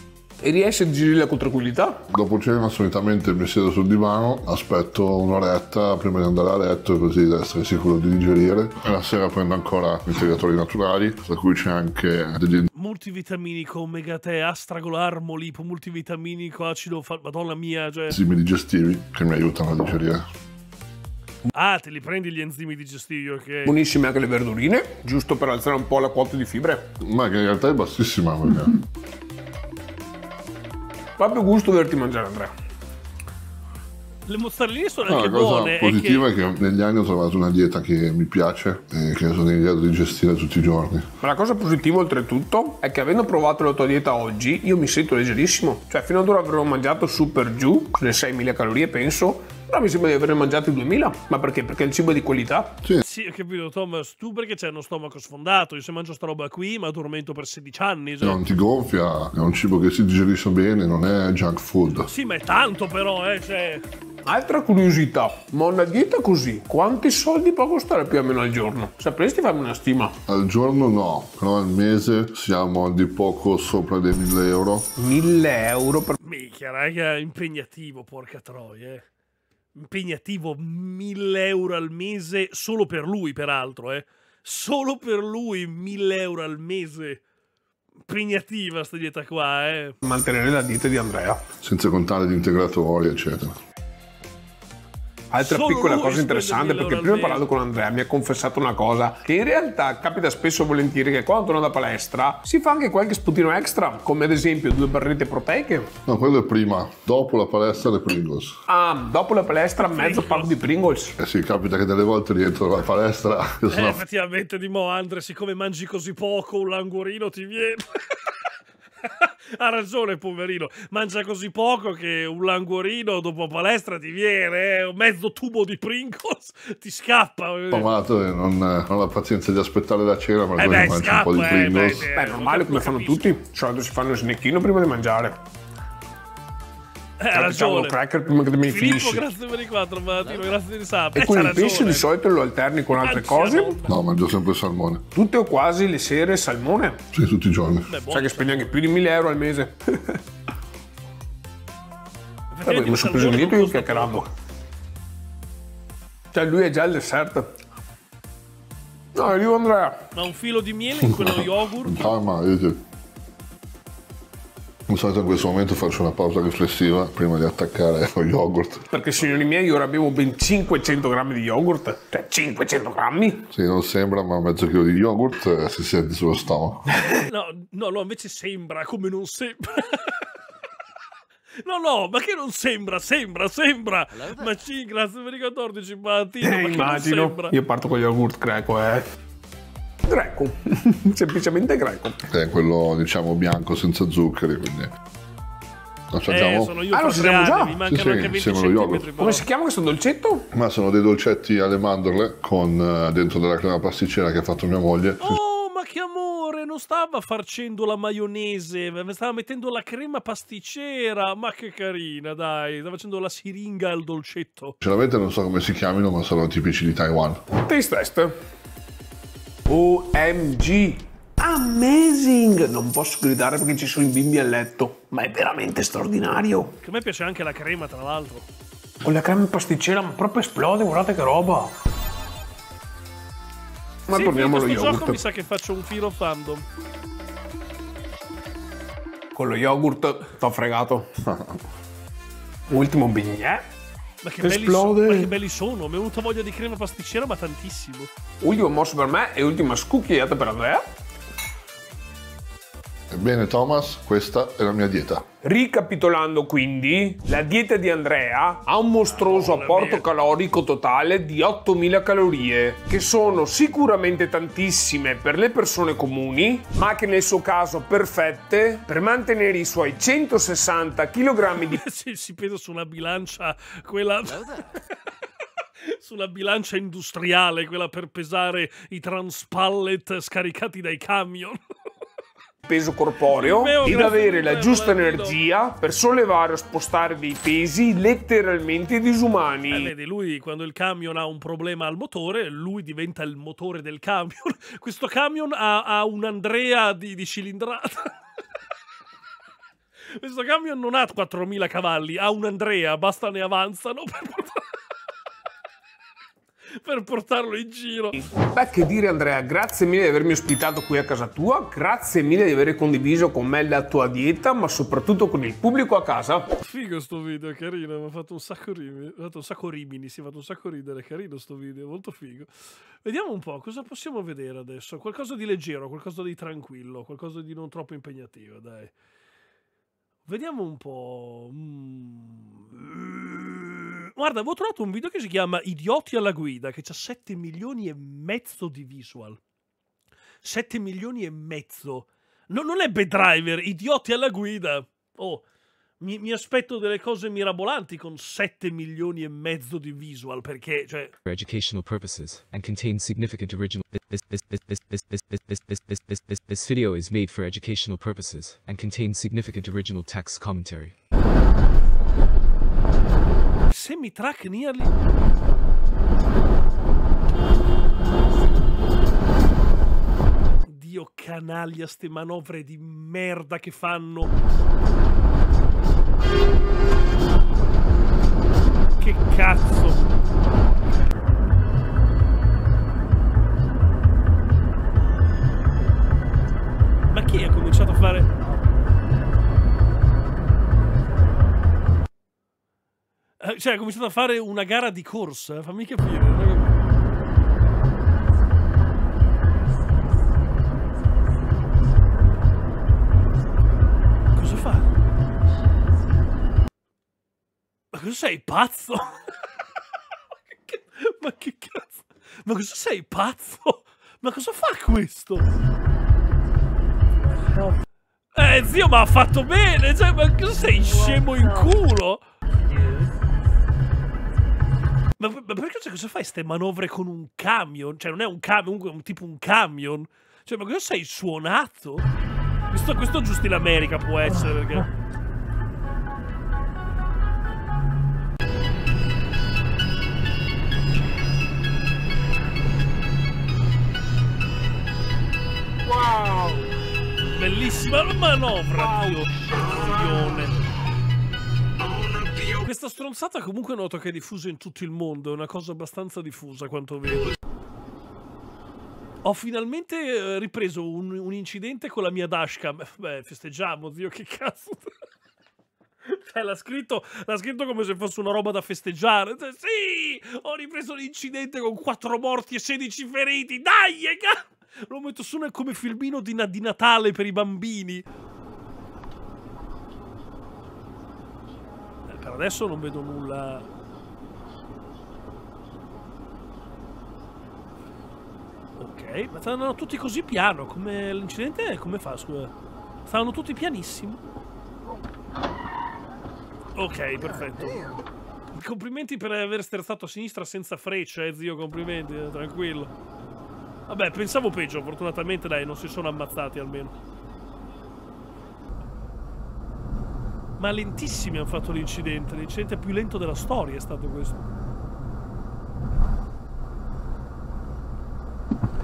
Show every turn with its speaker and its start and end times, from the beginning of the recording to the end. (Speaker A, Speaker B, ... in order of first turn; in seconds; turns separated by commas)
Speaker A: 0.4-2.0, Speaker B: 2.1-12.7, Speaker C: 12.7-18.2, Speaker B: 18.1-20.2, Speaker C: 21.5-23.7, Speaker A: 23.6-26.9, Speaker B: 27.0-28.8, Speaker A: 31.2-32.5, Speaker C: 34.2-36.3, Speaker B: 35.1-41.1, Speaker A: 41.2-52.8, Speaker C: 53.0-58.4, Speaker B: 58.2-62.1, Speaker C: 62.1-63.8, Speaker A: 64.2-70.2, Speaker B: 70.3-74.9, Speaker A: 75.0-76.1, Speaker C: 76.2-79.0, Speaker C: 79.7-87.2, Speaker C: 88.1-90.0, Speaker A: 90.0-91.4, Speaker B: 91.6-93.6, Speaker A: 95.3-105.9, Speaker C: 95.4-97.5, Speaker B: 106.0-108.6, Speaker A: 108.7-111.2, Speaker C: 109.8-110.5, Speaker B: 111.2-114.0, Speaker C: 113.7-118.2, Speaker C: 119.0-127.9, Speaker B: 127.7-132.1, Speaker C: 130.6-133.3, Speaker A: 132.1-135.4, Speaker C: 137.2-138.0, Speaker A: 137.3-139.3, Speaker C: 138.7-142.1, Speaker A: 141.1-143.8, Speaker C: 143.0-144.0, Speaker B: 143.9-145.0, Speaker A: 145.1-147.0, Speaker B: 147.1-147.9, Speaker C: 147.9-148.8, Speaker A: 148.1-150.2, Speaker C: 152.5-154.3, Speaker A: 152.7-154.3, Speaker A: 156.3-157.5, Speaker A: 159.1-160.1, Speaker C: 160.1-162.1, Speaker B: 161.0-162.8, Speaker B: 164.9-168.8, Speaker A: 168.9-173.4, Speaker B: 173.5-177.0, Speaker C: 177.1-180.2, Speaker C: 181.6-187.5, Speaker A: 186.4-189.0, Speaker A: 190.1-192.2, Speaker B: 192.3-194.9, Speaker B: 196.1-196.8, Speaker C: 196.3-199.4, Speaker A: 196.9-197.8, Speaker B: 197.8-199.1, Speaker A: 199.2-200.5, Speaker B: 200.5-205.4, Speaker C: 205.2-214.8, Speaker B: 214.8-217.4, Speaker A: 217.6-218.3, Speaker A: 219.7-226.8, Speaker C: 226.8-228.5, Speaker A: 229.0-231.7, Speaker A: 234.1-235.2, Speaker C: 234.1-236.6, Speaker A: 239.3-241.1, Speaker B: 241.3-241.6, Speaker A: 242.7-243.6, Speaker C: 244.2-248.1, Speaker A: 244.4-245.3, Speaker A: 248.4-250.8, Speaker B: 253.1-255.2, Speaker A: 255.4-271.8, Speaker C: 259.3-260.0, Speaker C: 271.6-274.7, Speaker C: 275.8-281.6, Speaker A: 282.6-289.9, Speaker C: 283.3-285.4, Speaker C: 289.7-298.1, Speaker C: 300.1-304.6, Speaker C: 306.8-308.2, Speaker A: 308.2-316.5, Speaker C: 316.6-328.9, Speaker C: 330.2-339.4, Speaker C: 340.4-345.4, Speaker C: 346.0-351.1, Speaker D: 351.2-360.9, Speaker C: 363.7-364.9, Speaker C: 370.6-374.3, Speaker C: 379.0-380.1, Speaker C: 387.1-388.3, Speaker C: 393.4-396.8, Speaker C: 404.3-404.9, Speaker C: 407.9-409.2, Speaker C: 410.7-415.6, Speaker C: 418.3-422.2, Speaker C: 425.2-432.1, Speaker C: 432.7-434.9, Speaker C: 447.3-450.6, Speaker C: 452.5-457.3, Speaker C: 459.2-464.9, Speaker C: 466.1-478.0, Speaker C: 482.1-483.6, Speaker C: 488.8-492.5, Speaker C: 493.1-494.2, Speaker C: 496.8-497.9, Speaker C: 498.5-502.9, Speaker C: 503.9-506.9, Speaker C: 510.6-514.4